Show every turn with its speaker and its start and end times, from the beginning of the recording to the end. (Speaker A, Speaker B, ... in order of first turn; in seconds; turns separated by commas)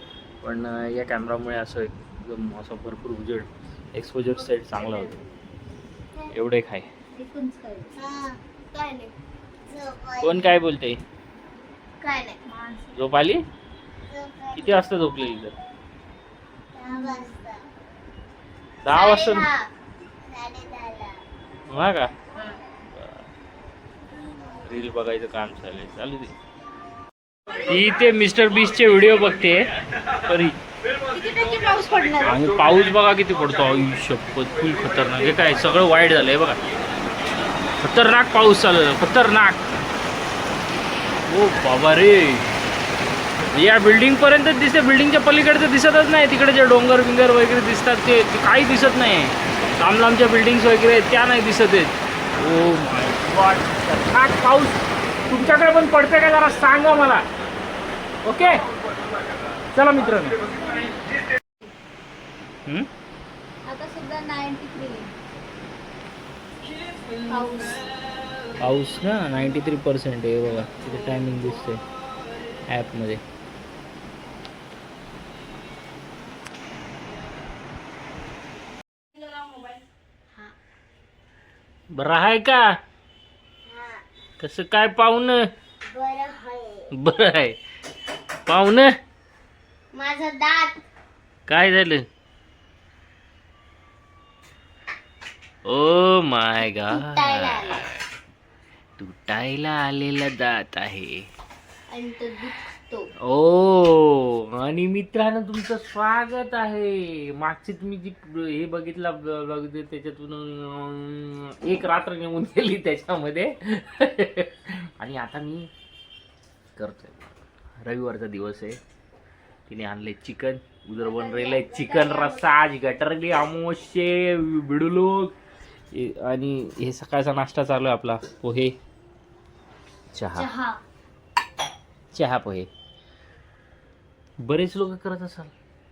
Speaker A: 0.4-5.1, Speaker B: 4.3-5.4, Speaker A: 6.3-6.9, Speaker B: 7.2-7.9, Speaker C: 8.0-9.1, Speaker C: 9.7-10.5, Speaker A: 10.2-11.0, Speaker C: 12.0-12.4, Speaker B: 12.5-12.9, Speaker A: 12.9-13.4, Speaker C: 14.1-14.8, Speaker A: 14.6-15.5, Speaker C: 16.7-17.7, Speaker B: 16.9-17.3, Speaker A: 18.8-19.5, Speaker C: 18.9-19.7, Speaker C: 20.3-21.2, Speaker A: 21.7-22.1, Speaker A: 24.6-26.3, Speaker A: 27.6-30.6, Speaker B: 31.1-32.4, Speaker A: 32.2-36.6, Speaker A: 37.8-39.7, Speaker A: 41.3-42.5, Speaker A: 43.5-57.2, Speaker A: 58.2-58.6, Speaker A: 59.8-60.4, Speaker B: 60.4-61.0, Speaker B: 63.7-65.1, Speaker B: 67.3-67.9, Speaker A: 68.6-71.8, Speaker A: 72.7-73.2, Speaker B: 79.1-79.8, Speaker A: 81.9-82.8, Speaker C: 83.7-84.0, Speaker A: 84.4-85.5, Speaker C: 85.9-86.9, Speaker A: 86.9-87.6, Speaker A: 88.5-88.9, Speaker C: 89.9-90.8, Speaker A: 91.5-92.0, Speaker A: 95.7-98.0, Speaker C: 96.9-97.8, Speaker A: 99.0-101.3, Speaker C: 101.9-103.1, Speaker A: 103.2-115.7, Speaker A: 116.8-117.3, Speaker A: 117.8-118.8, Speaker A: 119.7-125.3, Speaker C: 121.0-122.7, Speaker A: 125.9-128.8, Speaker A: 130.1-130.5, Speaker C: 130.4-130.8, Speaker A: 132.1-132.7, Speaker A: 134.4-135.5